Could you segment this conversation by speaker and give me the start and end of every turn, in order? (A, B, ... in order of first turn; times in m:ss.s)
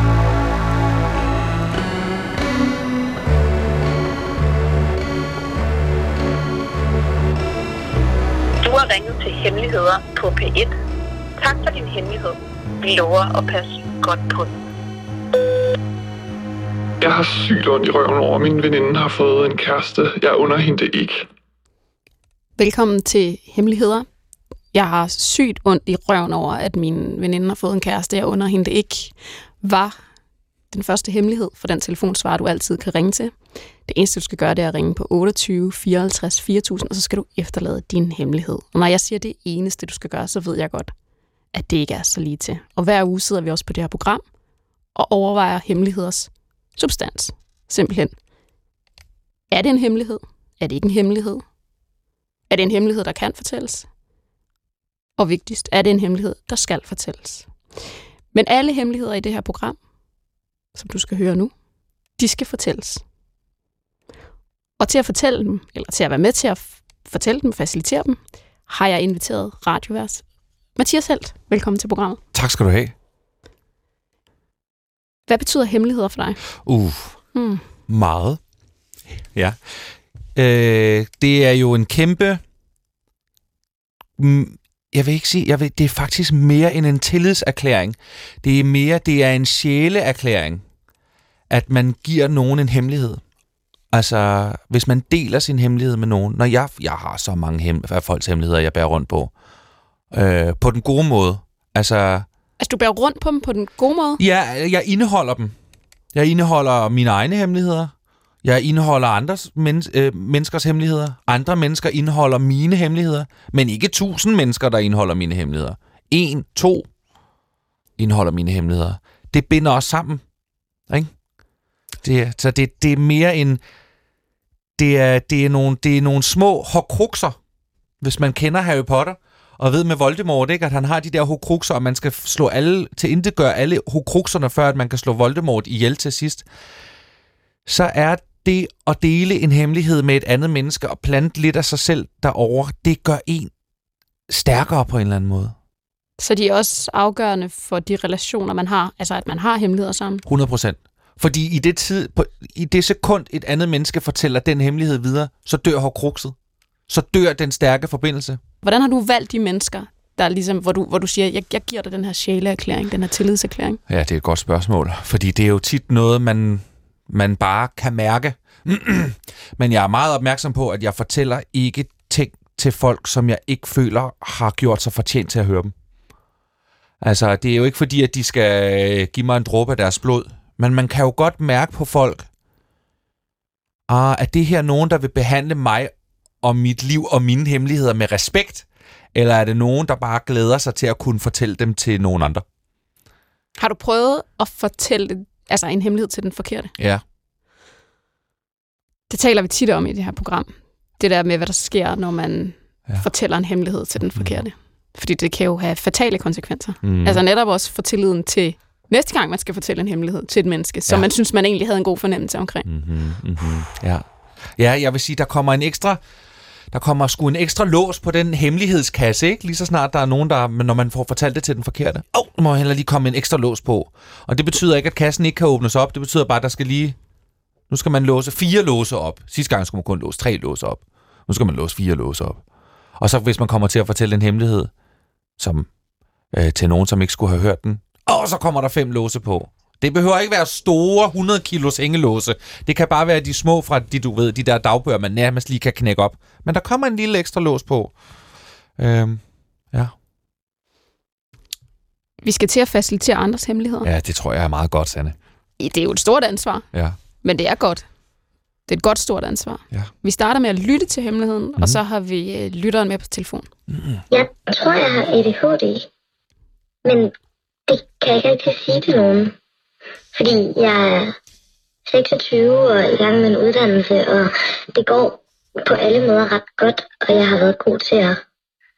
0:08.6-0:10.8 A
0:11.4-0:14.5 A
0:17.0-0:21.3 B
0:22.6-0:24.1 C
0:24.7-0:30.0 C
0:30.7-0:40.9 C
0:41.5-0:44.3 C
0:45.0-0:48.2 C
0:49.5-0:51.4 C
0:52.5-0:53.9 C
0:55.2-0:57.5 C
0:58.3-0:59.8 C
1:00.8-1:01.5 C
1:02.2-1:03.0 C
1:04.8-1:12.2 C
1:12.3-1:12.9 D
1:15.3-1:16.4 C
1:16.6-1:17.2 D
1:17.3-1:17.6 C
1:17.9-1:18.4 D
1:19.3-1:22.4 D
1:24.2-1:30.6 D
1:31.5-1:33.2 D
1:33.9-1:39.3 D
1:40.1-1:42.3 D
1:42.6-1:44.2 C
1:44.2-1:45.6 D
1:46.1-1:47.9 D
1:48.4-1:56.9 D
1:58.0-2:00.2 D
2:02.0-2:03.6 D
2:04.8-2:07.4 D
2:08.0-2:16.5 D
2:17.7-2:23.5 D
2:24.3-2:25.6 D
2:26.2-2:30.2 C
2:30.2-2:36.4 D
2:36.9-2:38.4 D
2:38.6-2:43.8 C
2:43.9-2:55.7 D
2:57.0-3:02.3 D
3:03.9-3:12.4 D
3:13.6-3:16.7 C
3:16.8-3:17.0 D
3:19.1-3:32.7 C
3:24.2-3:24.4 D
3:26.8-3:27.2 D
3:32.6-3:36.0 D
3:36.7-3:47.0 D
3:47.7-3:52.4 D
3:53.0-3:54.7 D
3:55.4-3:55.7 D
3:56.3-4:08.0 D
4:08.8-4:09.9 D
4:12.2-4:13.9 C
4:13.8-4:15.2 D
4:15.6-4:16.7 C
4:17.2-4:17.9 C
4:18.7-4:23.5 C
4:23.7-4:24.0 D
4:24.1-4:25.9 E
4:26.8-4:27.1 E
4:27.7-4:29.3 E
4:30.1-4:31.1 E
4:31.9-4:38.2 E